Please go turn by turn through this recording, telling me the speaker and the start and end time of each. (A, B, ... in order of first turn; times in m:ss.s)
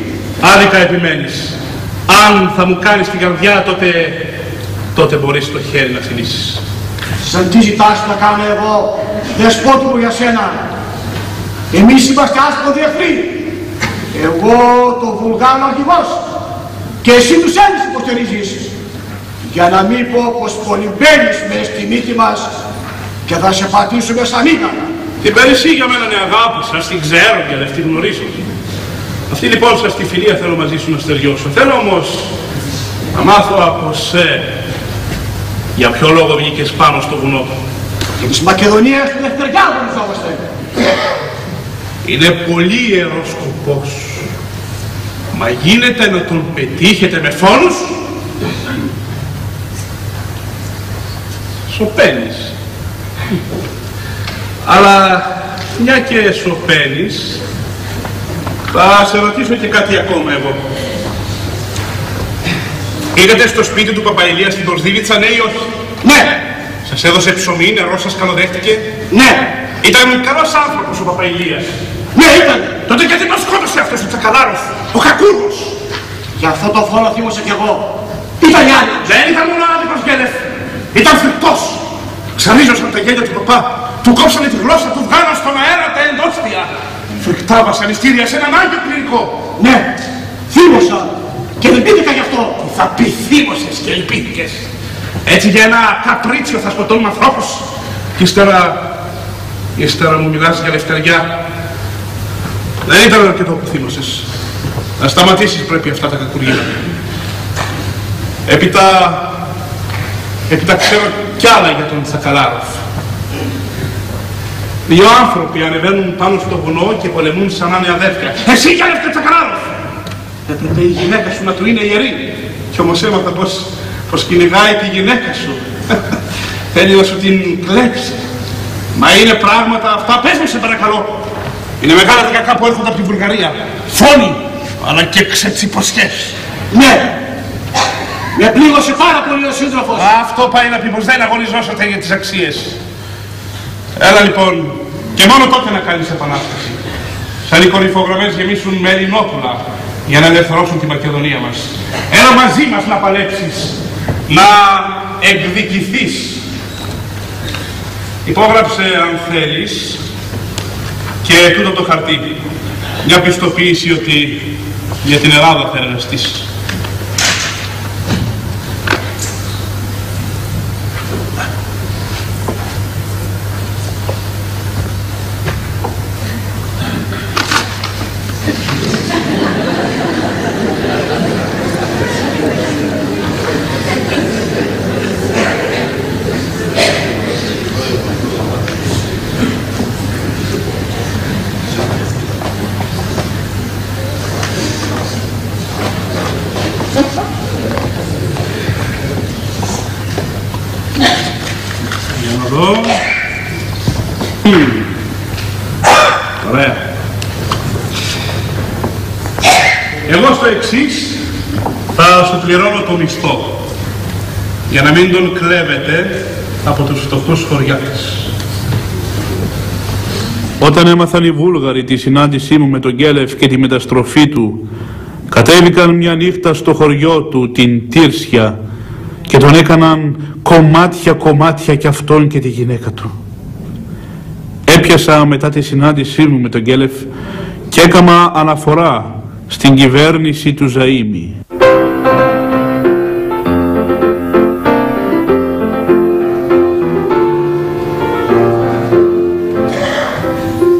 0:00.4-0:01.5 A
0:02.1-0:04.2 A
0:05.0-0:06.6 A
0:07.3-0:10.6 B
0:11.7-0:13.4 B
0:14.1-0:16.1 B
0:17.0-0:18.6 B
0:19.5-0:22.5 B
0:23.3-0:24.7 B
0:25.2-0:28.4 A
0:29.3-0:32.3 A
0:33.1-0:34.5 A
0:35.8-0:37.5 A
0:38.4-0:40.4 B
0:42.0-0:44.2 A
0:45.3-0:48.0 A
0:51.7-0:52.5 A
0:54.6-0:57.4 A
0:58.7-1:00.6 A
1:03.1-1:11.7 A
1:12.9-1:15.7 A
1:16.5-1:17.1 B
1:19.0-1:20.4 A
1:20.9-1:21.8 A
1:22.4-1:29.9 A
1:30.5-1:34.6 A
1:35.2-1:37.6 A
1:38.2-1:38.8 A
1:39.8-1:41.3 A
1:42.9-1:44.2 A
1:45.0-1:46.7 A
1:48.5-1:49.3 A
1:50.5-1:52.8 A
1:54.9-1:59.7 A
2:00.5-2:05.6 A
2:06.7-2:08.2 A
2:09.0-2:11.2 A
2:11.8-2:16.3 A
2:19.5-2:19.9 B
2:19.9-2:22.8 A
2:24.0-2:26.8 A
2:27.5-2:33.8 A
2:34.3-2:36.4 A
2:38.2-2:40.0 A
2:41.2-2:42.3 A
2:43.0-2:44.5 A
2:45.0-2:46.4 A
3:22.2-3:23.0 A
3:24.4-3:24.8 A
3:26.4-3:26.8 A
3:30.1-3:31.2 A
3:32.0-3:33.5 A
3:34.7-3:38.2 A
3:40.6-3:44.6 C
3:45.3-3:48.6 C
3:49.3-3:53.1 C
3:54.7-3:57.1 C
3:57.7-4:01.4 C